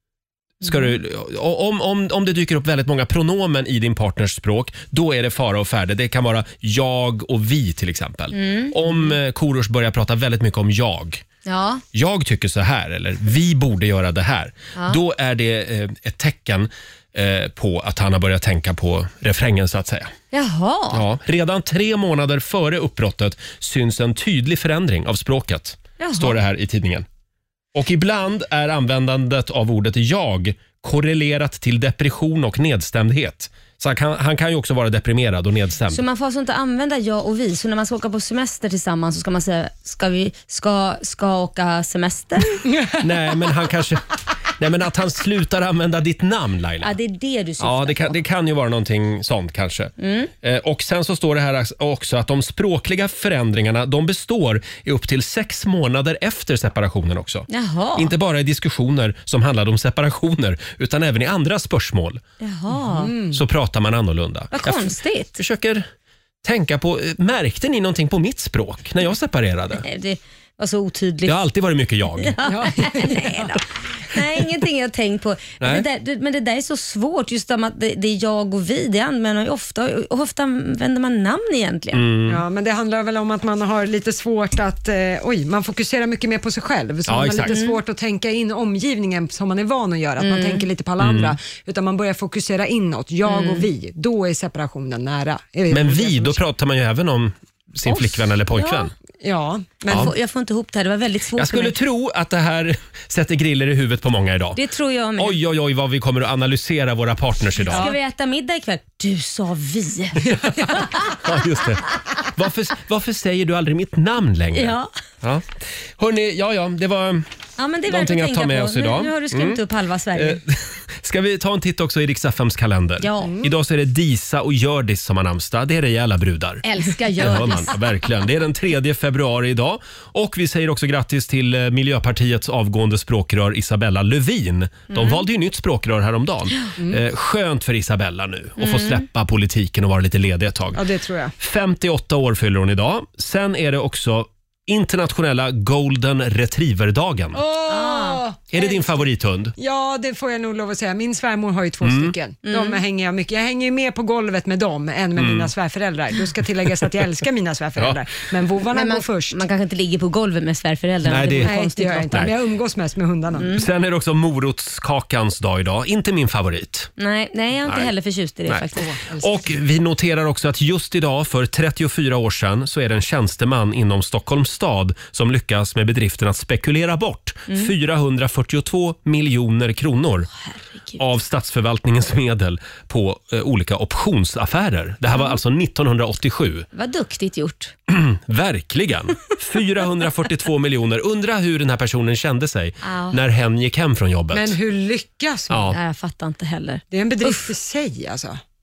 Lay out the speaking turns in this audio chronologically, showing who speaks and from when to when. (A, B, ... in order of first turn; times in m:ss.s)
0:00.6-0:11.2 A
0:08.3-0:09.1 B
0:11.4-0:11.8 B
0:11.9-0:20.1 A
0:14.7-0:15.0 B
0:20.3-0:21.0 B
0:20.9-0:27.0 A
0:26.0-0:26.4 B
0:27.7-0:36.0 A
0:35.9-0:42.6 B
0:43.0-0:47.0 A
0:46.8-0:48.1 B
0:47.6-1:02.2 A
0:50.0-0:50.3 B
0:57.5-0:58.1 B
1:02.4-1:03.1 B
1:02.9-1:03.4 C
1:03.3-1:05.9 A
1:04.5-1:05.4 B
1:06.4-1:09.8 A
1:09.8-1:11.4 B
1:11.2-1:12.4 A
1:12.2-1:22.0 B
1:12.4-1:13.6 C
1:15.6-1:15.8 A
1:21.9-1:22.4 A
1:22.3-1:36.4 C
1:27.0-1:27.6 A
1:27.5-1:27.8 B
1:30.2-1:30.6 B
1:31.0-1:31.4 A
1:33.2-1:33.6 B
1:35.7-1:38.9 A
1:37.8-1:38.9 B
1:39.2-1:40.1 C
1:39.9-1:41.7 B
1:41.4-1:44.6 A
1:44.6-1:45.4 B
1:45.2-1:47.9 A
1:47.7-1:51.0 B
1:50.3-1:57.2 A
1:54.5-1:54.9 B
1:57.6-2:00.4 B
1:57.9-1:59.6 A
2:00.1-2:20.9 A
2:03.0-2:03.4 B
2:06.6-2:07.8 B
2:14.9-2:15.2 B
2:18.6-2:19.0 B
2:20.7-2:21.3 C
2:21.4-2:27.4 A
2:27.3-2:28.9 C
2:27.7-2:28.2 B
2:28.5-2:29.6 A
2:29.6-2:39.4 C
2:31.8-2:32.1 A
2:32.4-2:32.8 B
2:35.2-2:35.5 A
2:37.8-2:38.0 A
2:38.7-2:42.3 B
2:41.0-2:41.5 A
2:41.4-2:43.5 C
2:42.1-2:42.3 A
2:43.4-2:43.7 B
2:43.5-2:46.9 A
2:47.0-2:48.9 B
2:47.6-2:47.9 A
2:48.7-2:49.5 C
2:49.2-3:00.3 A
3:00.5-3:01.0 B
3:01.0-3:06.7 A
3:06.7-3:07.7 B
3:07.9-3:14.6 A
3:12.8-3:13.2 B
3:14.3-3:15.7 C
3:15.5-3:15.8 A
3:15.7-3:17.5 B
3:16.9-3:18.4 C